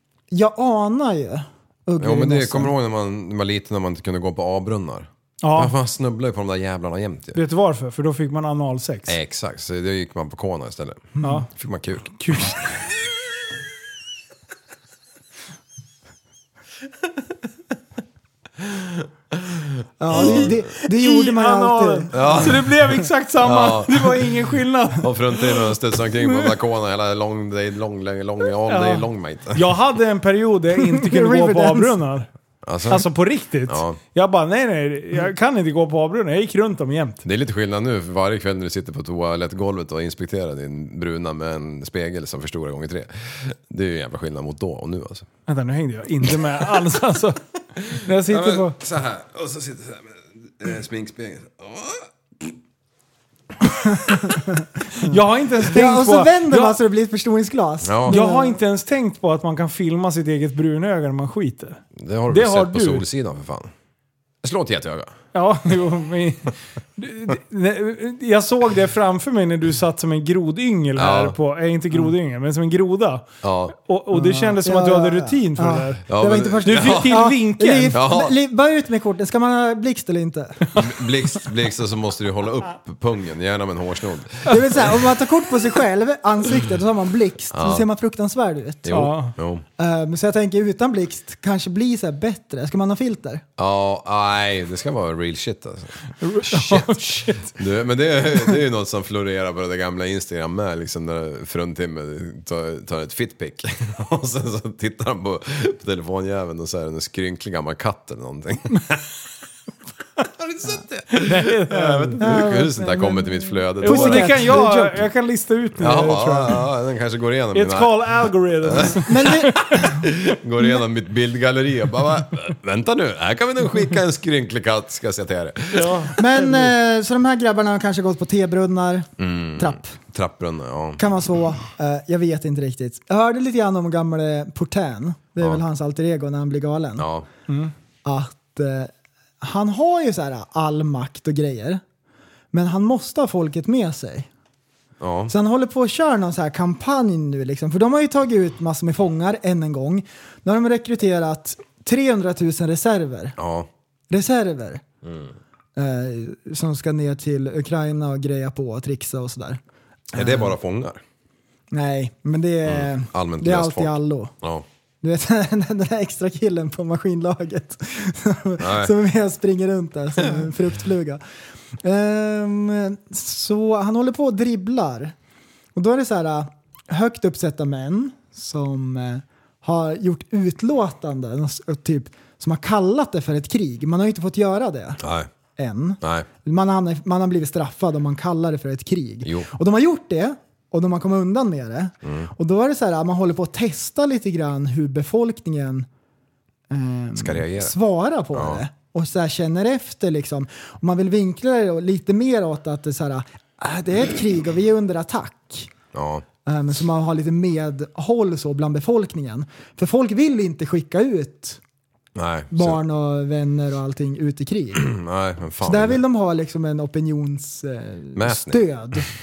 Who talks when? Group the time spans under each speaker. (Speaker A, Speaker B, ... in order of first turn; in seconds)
Speaker A: 0.3-2.7, 11.2-11.4, 20.0-22.6, 30.7-32.0, 54.0-55.1, 55.6-58.6, 74.1-80.7, 84.5-89.0, 89.8-93.4, 112.2-115.0, 118.9-120.0, 126.2-129.9, 131.0-137.1, 138.0-141.8, 142.5-144.3, 145.3-153.3, 154.1-154.8, 155.8-159.6, 160.1-160.5, 161.7-164.3, 165.0-171.2, 171.8-175.1, 175.7-185.0, 185.6-195.9, 196.7-205.7, 206.4-211.6, 212.5-214.9, 215.6-219.1
Speaker B: 2.0-7.4, 9.1-12.7, 18.6-20.5, 22.1-22.8, 23.4-24.4, 24.9-29.7, 32.6-33.1, 33.7-34.0, 37.2-45.3, 47.8-52.5, 57.8-58.2, 62.0-63.7, 64.4-65.1, 71.0-71.4, 73.4-73.7, 76.1-77.3, 77.9-78.3, 80.7-85.0, 87.5-87.9, 88.8-89.6, 93.6-109.0, 110.2-114.7, 115.8-126.1, 129.2-131.0, 137.0-137.3, 145.0-145.3, 153.4-153.7, 155.0-155.3, 160.1-161.0, 162.6-164.7, 168.6-168.9, 185.0-185.3, 186.0-186.3, 189.2-189.5, 192.0-192.3, 197.1-197.8, 198.3-198.6, 205.9-206.2, 212.1-212.8, 214.8-216.0, 218.1-219.0
Speaker C: 5.4-5.7, 7.3-9.2, 11.2-11.5, 12.2-12.8, 20.1-25.7, 26.2-26.5, 28.7-32.3, 32.8-37.2, 45.5-47.4, 47.9-48.8, 55.0-56.8, 58.1-63.0, 65.3-76.0, 76.6-78.0, 88.9-89.3, 96.2-97.5, 111.2-112.3, 113.8-116.6, 117.5-119.8, 125.7-126.7, 137.5-137.7